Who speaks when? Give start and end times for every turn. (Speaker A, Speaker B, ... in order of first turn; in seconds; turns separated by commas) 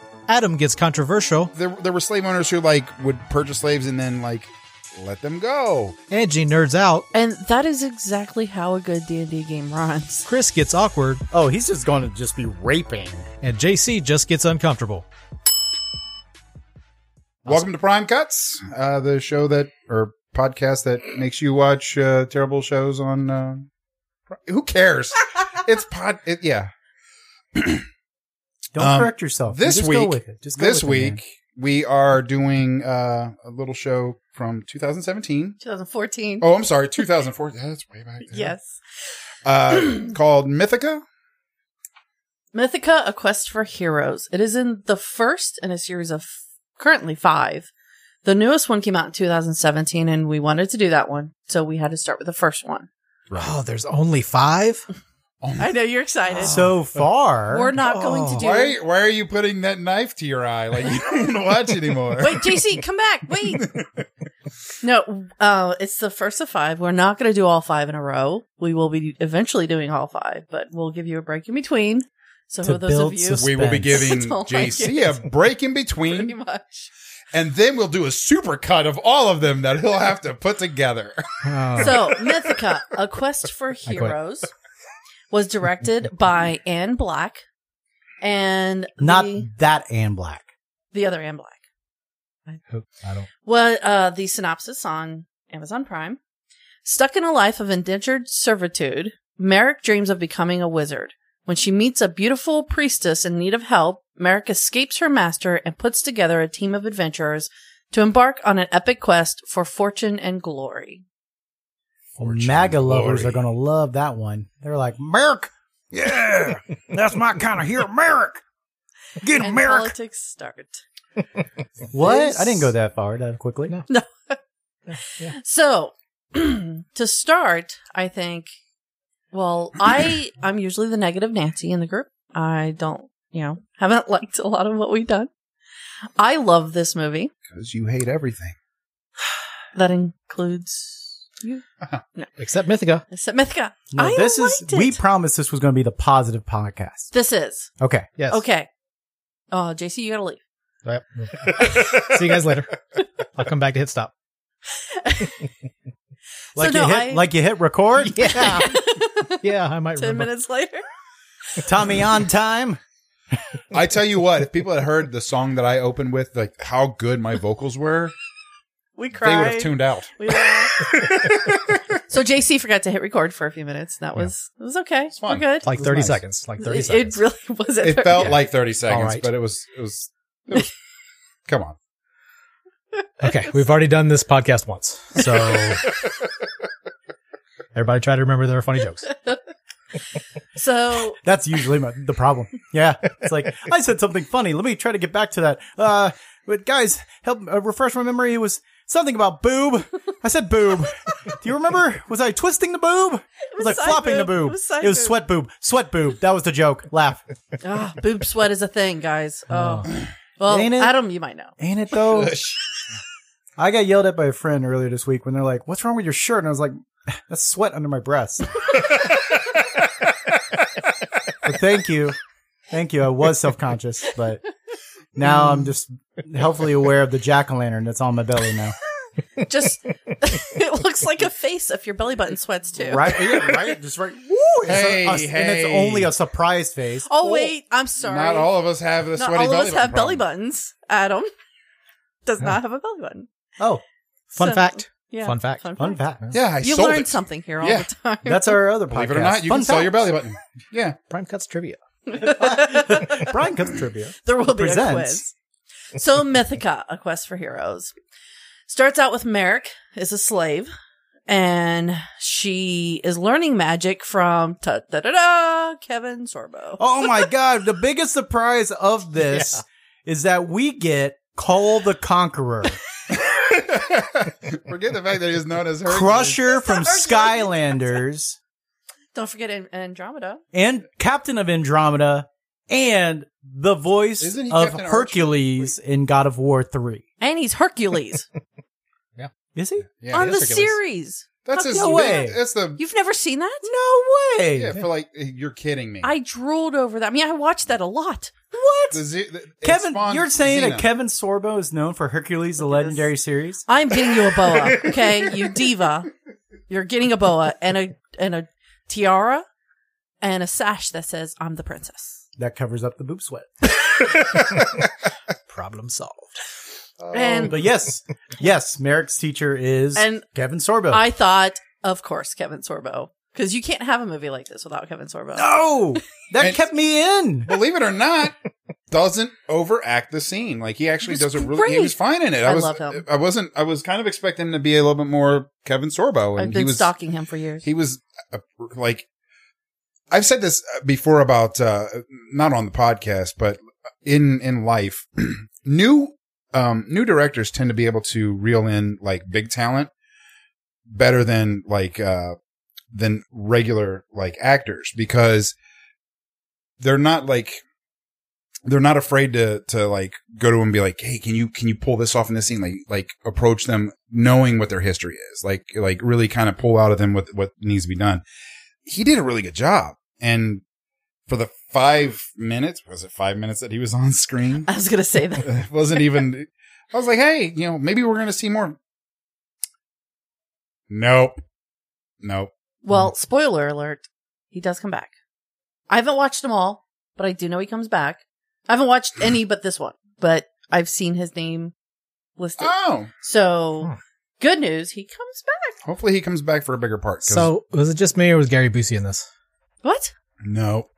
Speaker A: 0.3-1.5, Speaker B: 1.5-6.0, Speaker A: 6.1-7.1, Speaker C: 7.1-10.3, Speaker A: 10.3-11.2, Speaker D: 11.3-13.3, Speaker A: 13.4-15.1, Speaker B: 17.5-23.7, Speaker B: 24.3-26.7, Speaker B: 27.6-27.9, Speaker D: 28.7-31.2, Speaker B: 28.8-35.6, Speaker C: 35.6-36.5, Speaker B: 36.4-38.5, Speaker C: 38.3-38.8, Speaker B: 39.5-41.0, Speaker C: 42.5-47.7, Speaker C: 48.2-52.9, Speaker A: 53.4-54.9, Speaker B: 55.4-55.7, Speaker C: 55.6-56.6, Speaker D: 56.4-57.7, Speaker C: 57.5-58.8, Speaker A: 57.8-58.5, Speaker B: 58.4-62.6, Speaker C: 62.2-63.7, Speaker B: 63.5-64.1, Speaker C: 64.8-75.2, Speaker D: 72.6-74.1, Speaker B: 73.4-76.4, Speaker C: 76.0-76.9, Speaker B: 77.3-82.3, Speaker A: 81.4-82.0, Speaker C: 81.8-84.5, Speaker A: 83.9-84.2, Speaker C: 85.3-87.4, Speaker C: 88.2-89.5, Speaker D: 89.0-90.5, Speaker C: 90.9-91.6, Speaker A: 92.7-93.3, Speaker C: 93.4-96.2, Speaker C: 96.8-111.0, Speaker B: 112.2-113.4, Speaker D: 112.2-118.4, Speaker D: 119.2-119.9, Speaker C: 119.4-120.8, Speaker D: 121.9-123.8, Speaker C: 122.0-122.7, Speaker C: 123.9-124.4, Speaker A: 124.9-125.3, Speaker C: 125.0-128.5, Speaker C: 129.3-135.3, Speaker C: 136.2-137.3, Speaker B: 137.5-138.6, Speaker C: 139.7-141.6, Speaker A: 142.4-143.1, Speaker C: 143.1-145.0, Speaker D: 143.9-147.1, Speaker C: 147.1-147.7, Speaker D: 147.8-148.1, Speaker A: 148.2-148.4, Speaker C: 148.3-148.7, Speaker C: 149.5-150.4, Speaker A: 150.8-152.8, Speaker C: 151.6-152.1, Speaker A: 153.3-154.1, Speaker C: 154.8-155.3, Speaker D: 156.6-158.7, Speaker C: 156.6-157.3, Speaker A: 158.0-158.8, Speaker C: 158.3-159.5, Speaker A: 159.4-160.3, Speaker C: 160.0-160.8, Speaker D: 161.6-162.8, Speaker B: 163.7-168.2, Speaker C: 169.0-170.8, Speaker B: 169.2-171.8, Speaker C: 172.1-175.7, Speaker B: 175.2-176.2, Speaker A: 175.6-177.2, Speaker C: 176.6-178.4, Speaker B: 177.8-180.7, Speaker A: 178.9-179.3, Speaker B: 181.5-181.8, Speaker A: 183.2-185.9, Speaker A: 187.7-189.1, Speaker C: 190.6-191.2, Speaker D: 191.2-207.2, Speaker C: 203.5-205.2, Speaker C: 207.6-211.5, Speaker A: 209.5-209.9, Speaker D: 210.5-211.0, Speaker D: 211.6-212.4, Speaker B: 212.1-212.6, Speaker D: 213.6-218.6, Speaker B: 218.7-220.1, Speaker D: 221.4-222.2, Speaker D: 222.7-224.4, Speaker D: 225.2-228.8, Speaker C: 229.4-233.5, Speaker D: 232.8-237.5, Speaker B: 234.7-236.1, Speaker C: 237.1-238.5, Speaker B: 238.0-240.2, Speaker C: 239.2-241.3, Speaker C: 242.3-243.3, Speaker A: 244.3-245.7, Speaker C: 244.4-246.0, Speaker D: 245.8-246.2, Speaker B: 246.3-247.9, Speaker C: 246.6-248.6, Speaker D: 248.2-250.2, Speaker B: 248.9-251.0, Speaker A: 251.1-251.8, Speaker C: 252.1-253.3, Speaker D: 252.2-255.3, Speaker C: 254.2-255.3, Speaker C: 255.9-257.9, Speaker C: 258.7-260.7, Speaker C: 261.3-266.8, Speaker D: 266.8-272.8, Speaker A: 269.3-269.6, Speaker B: 273.1-276.4, Speaker D: 275.9-278.4, Speaker C: 276.5-277.6, Speaker C: 279.1-280.4, Speaker D: 280.5-287.0, Speaker B: 284.2-285.7, Speaker C: 287.2-288.3, Speaker D: 289.6-289.9, Speaker B: 290.0-290.4, Speaker C: 290.1-293.7, Speaker A: 290.1-290.8, Speaker B: 291.4-292.8, Speaker D: 291.5-292.4, Speaker D: 293.6-294.8, Speaker B: 294.6-296.1, Speaker C: 296.0-298.6, Speaker D: 298.5-299.0, Speaker B: 298.9-300.9, Speaker D: 299.6-303.6, Speaker C: 302.6-303.1, Speaker C: 303.7-306.1, Speaker C: 306.7-309.4, Speaker C: 310.2-312.2, Speaker D: 312.4-313.7, Speaker A: 315.5-316.4, Speaker B: 317.0-317.6, Speaker C: 317.1-317.6, Speaker D: 317.4-321.0, Speaker C: 319.9-320.2, Speaker C: 320.9-325.5, Speaker D: 325.4-327.5, Speaker B: 327.5-328.4, Speaker B: 328.9-336.9, Speaker C: 331.0-333.0, Speaker C: 336.4-337.7, Speaker B: 337.6-339.1, Speaker B: 340.1-349.9, Speaker B: 350.9-352.4, Speaker B: 352.9-355.6, Speaker B: 356.8-357.6, Speaker B: 358.7-368.2, Speaker B: 368.9-370.6, Speaker B: 371.3-374.7, Speaker C: 374.7-375.5, Speaker B: 375.4-378.8, Speaker B: 380.9-381.4, Speaker B: 382.2-382.5, Speaker C: 382.8-385.1, Speaker C: 385.9-391.7, Speaker C: 392.4-395.8, Speaker B: 392.6-393.1, Speaker B: 395.9-397.5, Speaker A: 397.2-399.3, Speaker C: 399.8-400.1, Speaker B: 400.4-400.9